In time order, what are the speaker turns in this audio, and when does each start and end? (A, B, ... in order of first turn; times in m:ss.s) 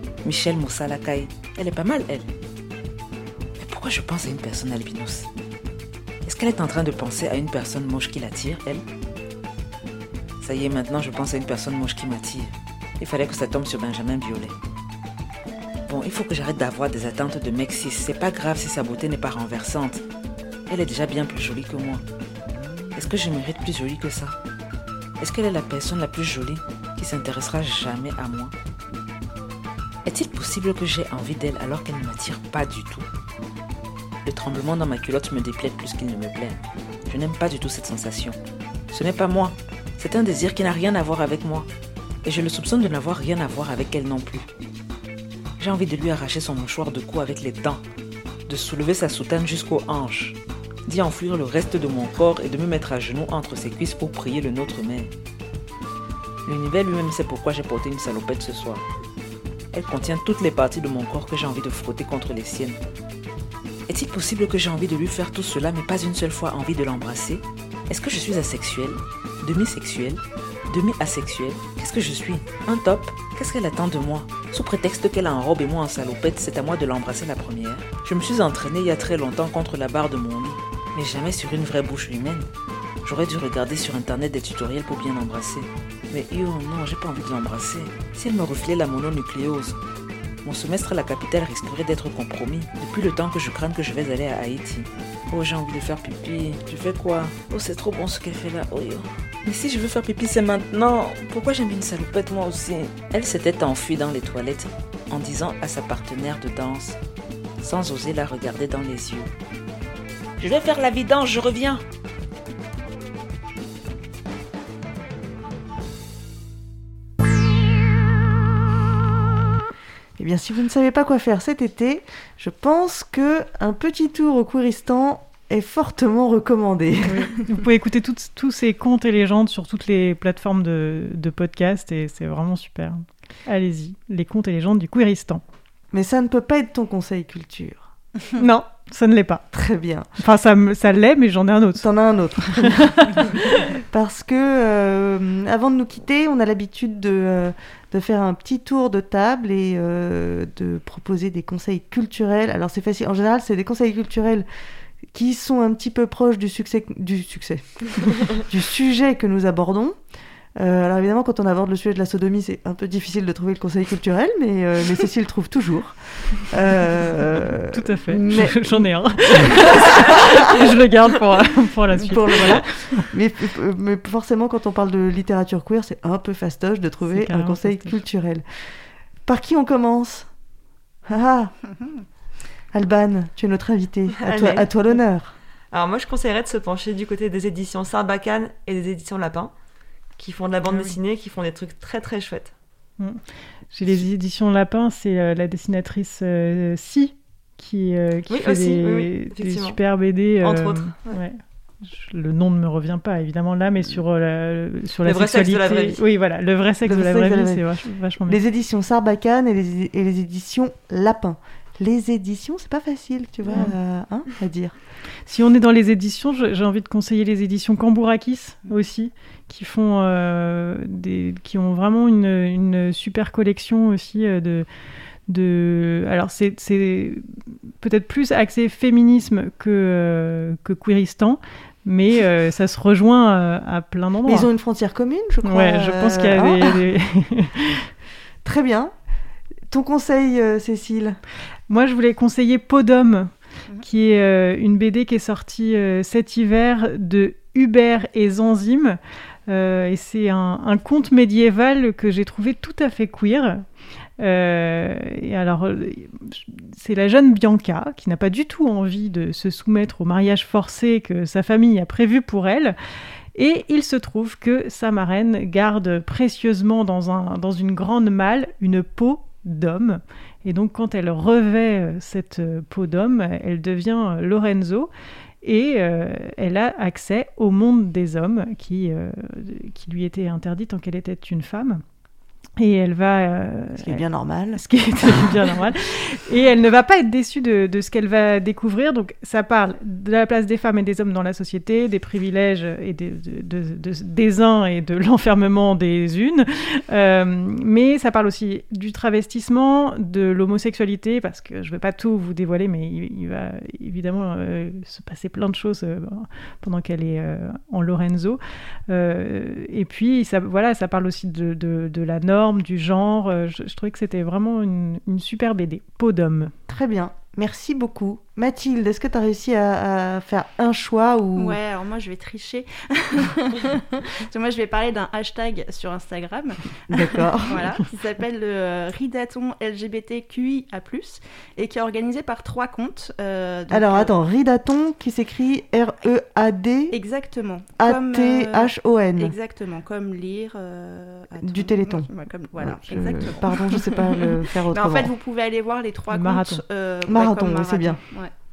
0:00.2-0:02.3 A
0:03.6-0:05.3 A
0:06.2-0:08.8 A
0:10.4-0:14.5 A
0:15.9-0:20.0 A
0:20.7-0:22.0 A
0:22.9-0:24.4 A
0:25.2-0:28.5 A
0:30.0-0:33.1 A
0:34.2-0:38.4 A
0:38.9-0:41.7 A
0:42.2-0:44.4 A
0:45.6-0:47.8 A
0:48.5-0:55.1 A
0:56.4-0:58.8 A
0:59.7-1:02.8 A
1:03.9-1:22.5 A
1:23.0-1:29.8 A
1:30.4-1:47.0 A
1:47.6-1:49.3 A
1:50.4-1:51.8 A
2:00.2-2:07.3 B
2:07.0-2:15.4 C
2:15.9-2:17.9 B
2:18.4-2:19.4 C
2:19.5-2:20.1 B
2:20.2-2:21.9 C
2:21.8-2:34.4 B
2:22.4-2:23.2 C
2:35.1-2:40.0 B
2:40.6-2:50.5 B
2:47.7-2:53.0 C
2:51.9-2:58.4 B
2:57.0-2:58.0 C
2:59.2-3:00.3 B
3:01.1-3:01.5 B
3:01.7-3:02.0 D
3:02.7-3:05.3 B
3:04.2-3:04.7 E
3:05.7-3:09.5 E
3:10.2-3:12.5 E
3:10.7-3:10.9 C
3:13.0-3:28.4 C
3:18.3-3:19.8 E
3:20.4-3:21.2 E
3:25.0-3:26.0 E
3:26.8-3:27.6 B
3:28.2-3:34.7 B
3:33.5-3:33.7 C
3:35.2-3:44.6 C
3:45.3-3:47.2 C
3:47.8-3:54.5 C
3:54.2-3:56.8 B
3:55.4-3:57.9 C
3:58.4-3:58.9 B
3:59.7-4:01.2 B
4:01.7-4:03.3 C
4:03.8-4:13.6 C
4:14.2-4:22.8 C
4:23.3-4:34.9 C
4:35.4-4:41.8 C
4:42.6-4:44.0 C
4:43.8-4:45.3 B
4:44.5-5:16.5 C
5:16.7-5:21.6 B
5:21.4-5:34.1 D
5:26.9-5:27.7 B
5:33.7-5:37.0 B
5:36.9-5:48.3 D
5:37.8-5:39.3 B
5:41.4-5:45.1 B
5:46.1-5:46.6 C
5:47.0-5:48.0 B